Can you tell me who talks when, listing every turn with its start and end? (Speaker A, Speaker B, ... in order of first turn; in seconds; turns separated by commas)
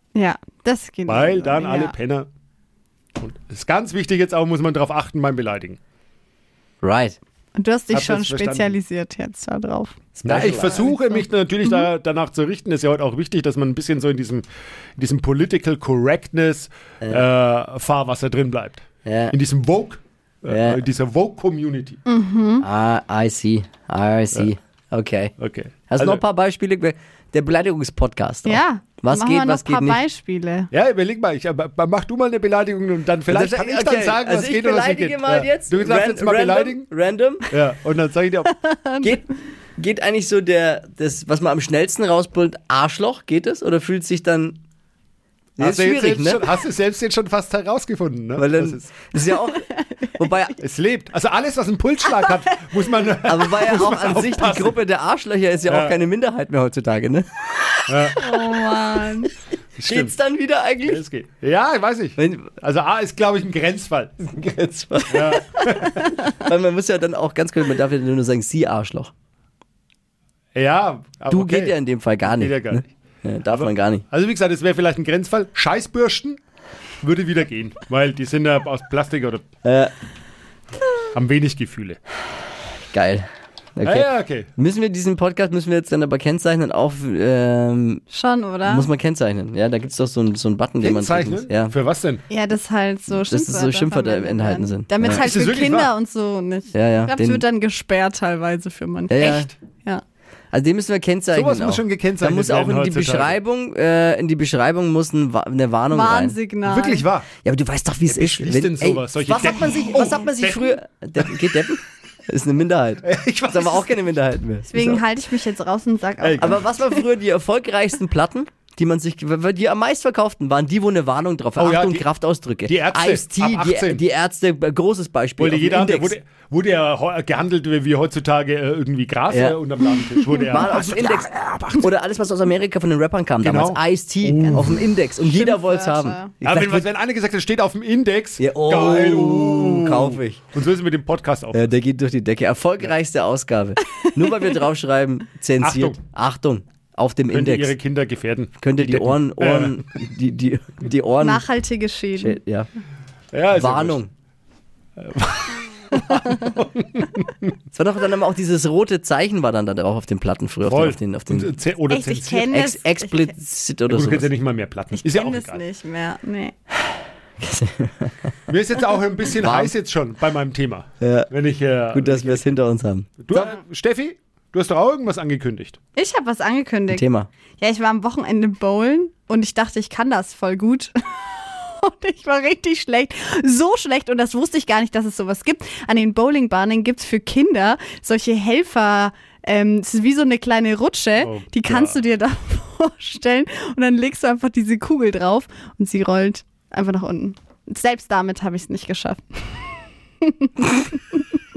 Speaker A: 0.1-1.9, Speaker B: 1.1-2.3, Speaker B: 3.2-5.8, Speaker C: 6.8-7.2, Speaker A: 7.5-11.8, Speaker B: 7.9-8.8, Speaker C: 10.2-10.9, Speaker B: 10.2-14.4, Speaker B: 15.0-22.0, Speaker C: 19.0-19.4, Speaker C: 20.5-20.8, Speaker A: 22.1-22.6, Speaker C: 22.6-25.3, Speaker B: 25.4-26.2, Speaker C: 25.9-30.0, Speaker A: 28.4-30.7, Speaker B: 30.7-36.9, Speaker C: 33.3-37.5, Speaker B: 37.5-38.5, Speaker A: 38.5-39.2, Speaker C: 39.0-44.6, Speaker C: 45.6-46.5, Speaker B: 45.6-49.0, Speaker C: 48.4-50.6, Speaker A: 49.5-50.0, Speaker B: 50.6-54.8, Speaker A: 52.1-52.8, Speaker C: 53.3-57.7, Speaker B: 55.7-56.0, Speaker B: 57.9-58.2, Speaker A: 58.2-59.3, Speaker B: 59.8-60.1, Speaker C: 59.8-61.0, Speaker B: 60.8-64.2, Speaker C: 62.2-62.5, Speaker C: 64.3-69.1, Speaker B: 65.1-66.1, Speaker B: 70.5-72.9, Speaker C: 71.3-74.0, Speaker B: 73.5-76.4, Speaker B: 77.0-79.4, Speaker C: 79.6-79.9, Speaker B: 81.1-82.0, Speaker C: 82.9-88.0, Speaker B: 83.8-84.5, Speaker A: 88.1-88.9, Speaker C: 88.6-91.7, Speaker B: 90.8-92.2, Speaker A: 92.3-100.0, Speaker C: 93.1-95.2, Speaker B: 95.0-95.9, Speaker C: 96.7-97.4, Speaker C: 99.1-99.5, Speaker C: 100.5-106.4, Speaker B: 101.3-103.4, Speaker A: 105.9-107.1, Speaker B: 106.6-107.3, Speaker C: 107.4-115.0, Speaker B: 108.0-111.3, Speaker A: 109.3-110.3, Speaker B: 113.0-114.0, Speaker A: 114.7-117.0, Speaker C: 116.2-126.1, Speaker B: 121.6-122.1, Speaker B: 122.7-124.0, Speaker B: 125.4-131.9, Speaker C: 129.3-129.6, Speaker C: 130.4-136.9, Speaker B: 133.4-134.8, Speaker A: 134.5-136.3, Speaker B: 136.4-141.7, Speaker C: 138.4-140.4, Speaker C: 141.5-147.7, Speaker B: 145.6-146.0, Speaker B: 147.3-149.8, Speaker C: 148.6-151.4, Speaker A: 151.2-152.4, Speaker C: 152.2-152.7, Speaker B: 153.3-154.0, Speaker C: 153.5-154.1, Speaker B: 155.0-157.5, Speaker C: 157.7-161.5, Speaker B: 160.6-162.5, Speaker A: 161.9-163.3, Speaker C: 162.5-164.3, Speaker B: 163.9-165.6, Speaker A: 164.9-166.5, Speaker C: 167.4-168.3, Speaker B: 168.5-172.6, Speaker C: 169.3-169.7, Speaker C: 171.0-171.3, Speaker C: 171.9-173.2, Speaker B: 173.2-175.8, Speaker A: 175.9-177.0, Speaker C: 176.9-177.3, Speaker A: 177.6-201.2, Speaker B: 191.2-191.9